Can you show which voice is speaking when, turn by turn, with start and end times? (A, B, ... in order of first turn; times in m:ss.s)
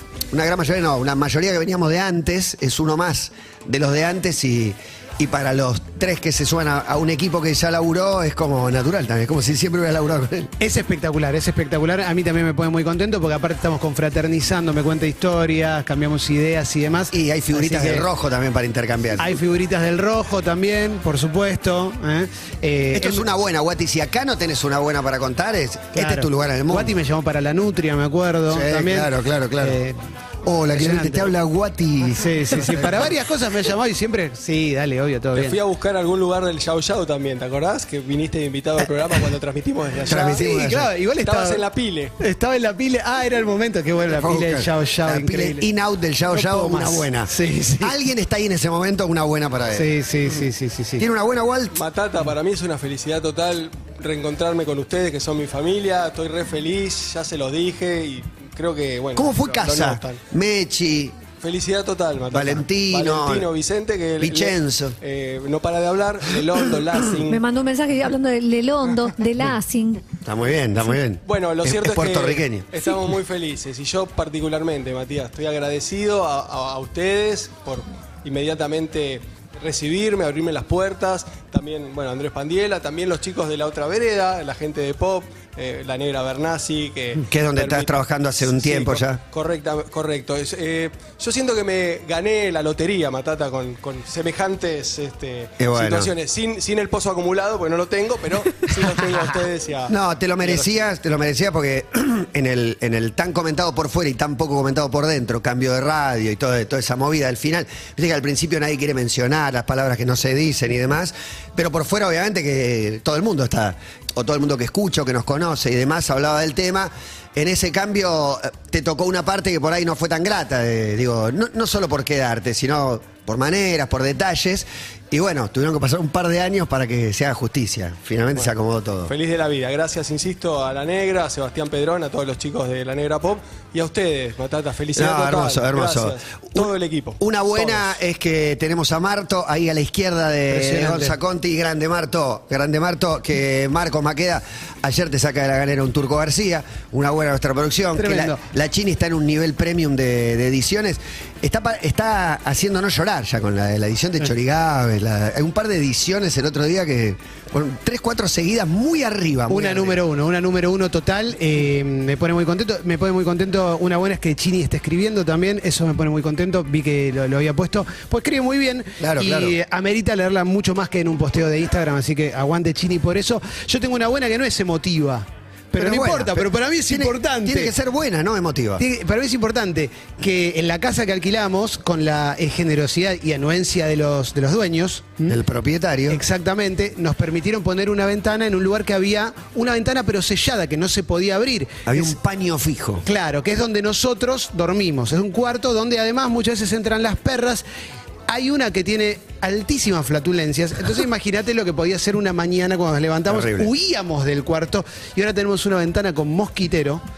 0:00.3-0:10.5 A
0:10.6-0:18.1 B
0:17.1-0:19.4 A
0:19.2-0:23.2 B
0:22.9-0:27.0 A
0:26.0-0:30.0 B
0:28.5-0:29.8 A
0:30.4-0:33.1 A
0:30.7-0:31.3 B
0:32.1-0:35.6 B
0:35.3-0:40.4 C
0:40.1-0:40.9 A
0:40.1-0:41.6 B
0:41.2-0:42.1 C
0:42.2-0:45.6 B
0:44.0-0:50.0 A
0:46.3-0:48.0 B
0:49.7-0:51.0 B
0:51.0-0:51.8 A
0:51.8-1:00.2 C
0:59.2-1:01.2 A
1:01.4-1:07.4 C
1:02.3-1:03.5 A
1:04.2-1:05.0 A
1:07.3-1:10.0 D
1:10.2-1:12.7 A
1:11.3-1:40.9 C
1:27.2-1:29.2 A
1:35.6-1:36.1 A
1:39.9-2:09.1 A
2:09.1-2:17.9 C
2:15.0-2:40.0 A
2:20.5-2:21.2 B
2:28.0-2:28.4 B
2:39.5-2:57.7 B
2:49.0-2:49.6 A
2:55.8-2:58.8 A
2:58.8-3:05.4 B
3:05.3-3:06.2 A
3:06.1-3:12.1 B
3:11.9-3:13.1 A
3:13.0-3:17.6 B
3:18.3-3:27.0 B
3:23.3-3:23.7 A